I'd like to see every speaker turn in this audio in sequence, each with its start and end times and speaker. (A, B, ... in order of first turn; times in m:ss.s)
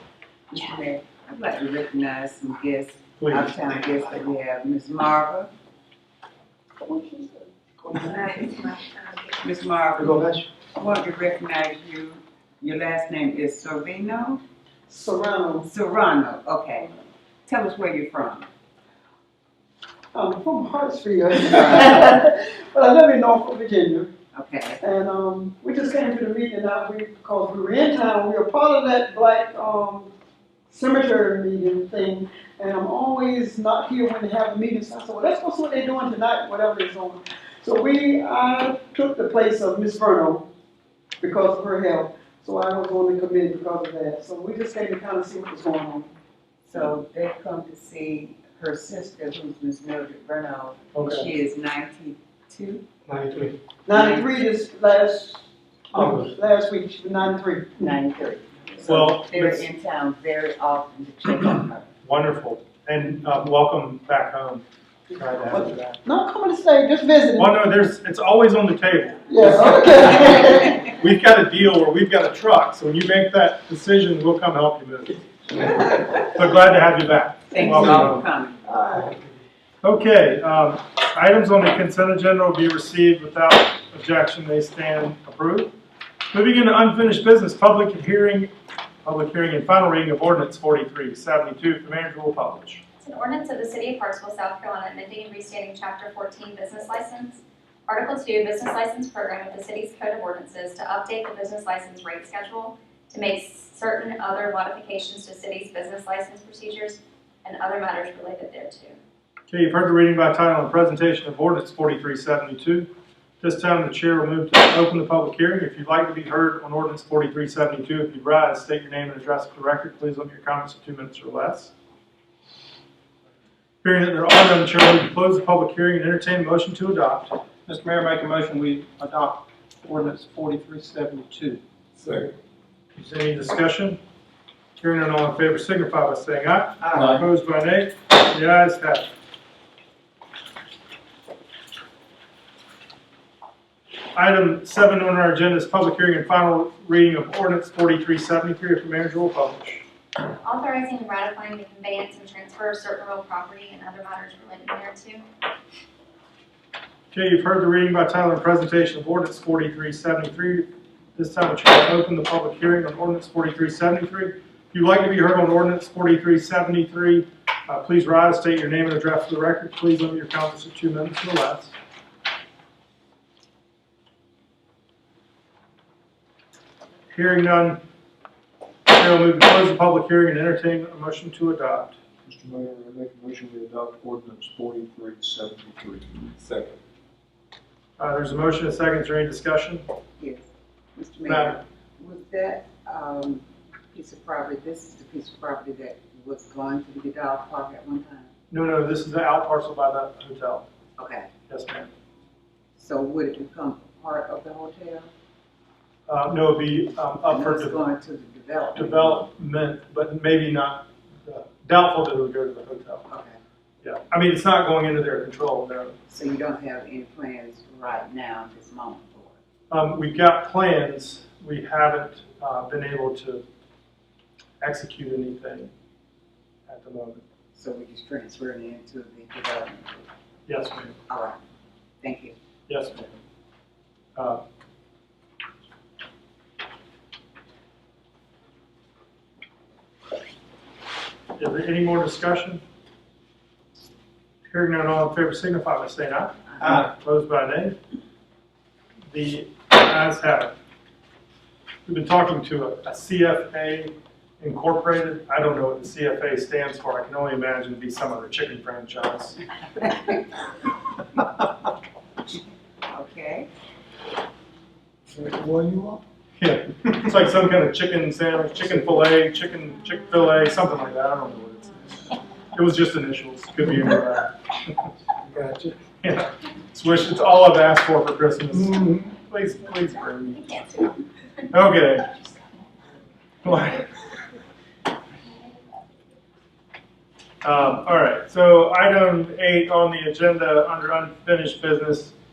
0:00.5-0:05.5 A
0:03.2-0:03.5 B
0:06.8-0:08.4 C
0:09.4-0:14.4 A
0:14.9-0:15.7 C
0:15.6-0:16.9 A
0:17.5-0:18.5 A
0:20.1-0:24.1 C
0:21.5-0:22.0 A
0:24.3-0:24.8 A
0:24.8-0:30.1 C
0:30.7-0:40.5 C
0:41.2-0:46.1 C
0:46.6-0:52.8 A
0:50.9-0:51.3 B
0:53.9-0:57.9 C
0:53.9-0:54.3 A
0:57.8-1:01.9 A
0:58.8-0:59.7 B
1:02.0-1:04.6 B
1:05.2-1:06.0 B
1:05.4-1:07.6 C
1:07.4-1:09.2 B
1:09.3-1:10.8 C
1:10.8-1:18.2 B
1:17.5-1:18.6 A
1:17.7-1:19.1 C
1:19.8-1:25.7 B
1:26.3-1:28.5 B
1:29.0-1:32.8 B
1:33.0-1:49.0 D
1:49.5-1:52.9 B
1:53.4-2:01.7 B
2:03.8-2:07.4 B
2:07.7-2:11.6 E
2:13.0-2:14.0 B
2:14.8-2:19.1 B
2:24.1-2:29.8 B
2:30.4-2:35.3 D
2:37.1-2:51.7 B
2:57.1-2:57.8 B
2:58.9-3:02.0 B
3:02.3-3:06.8 F
3:08.0-3:09.8 B
3:10.2-3:18.3 A
3:11.3-3:11.6 B
3:18.5-3:20.6 B
3:21.0-3:21.3 A
3:21.5-3:21.9 B
3:22.8-3:25.1 A
3:26.1-3:27.8 B
3:27.3-3:29.3 A
3:28.8-3:33.0 B
3:33.1-3:33.4 A
3:33.8-3:36.0 B
3:36.1-3:39.4 A
3:39.7-3:43.4 B
3:44.6-3:45.7 B
3:46.7-3:47.2 B
3:47.6-3:50.1 A
3:50.5-3:51.0 B
3:51.1-3:51.4 A
3:52.0-3:52.4 A
3:52.7-3:53.2 B
3:54.2-3:54.4 B
4:01.4-4:02.6 B
4:04.5-4:07.8 B
4:09.1-4:10.6 B
4:11.9-4:19.4 B
4:22.9-4:23.5 A
4:25.3-4:25.8 F
4:26.4-4:31.9 B
4:32.5-4:34.9 B
4:35.4-4:35.7 F
4:36.0-4:40.5 B
4:41.5-4:42.1 B
4:43.4-4:43.9 B
4:47.4-4:52.1 B